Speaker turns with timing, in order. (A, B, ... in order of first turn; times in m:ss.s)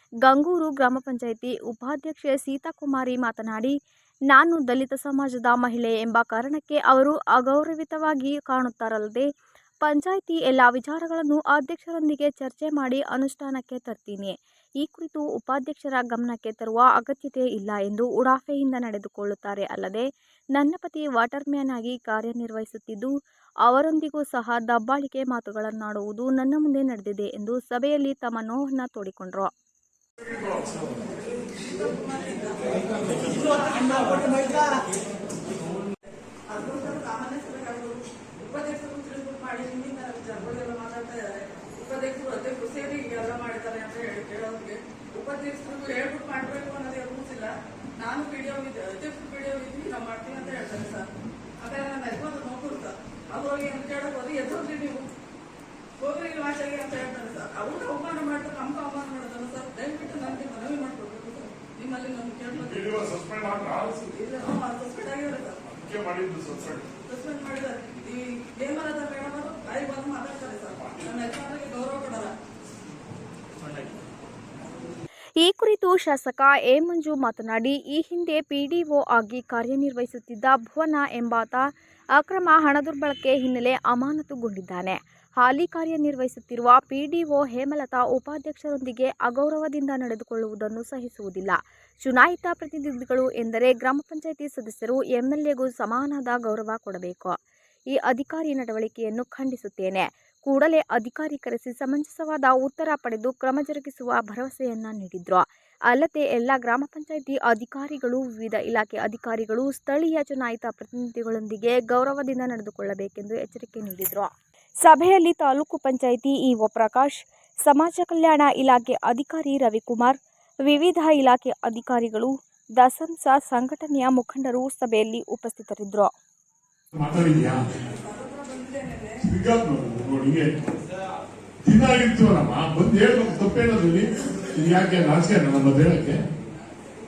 0:00.2-0:03.8 A
0:04.3-0:09.3 A
0:09.8-0:23.1 A
0:23.6-0:29.5 A
0:30.4-0:30.8 B
0:31.4-0:34.9 B
0:36.5-0:51.1 B
0:51.6-0:55.1 B
0:56.0-1:03.0 B
1:02.6-1:03.9 C
1:03.7-1:05.7 B
1:05.7-1:06.9 C
1:07.0-1:12.4 B
1:15.4-1:37.4 A
1:37.9-1:54.3 A
1:54.8-2:06.1 A
2:06.9-2:07.8 C
2:08.0-2:09.2 B
2:09.2-2:10.6 C
2:11.6-2:16.2 C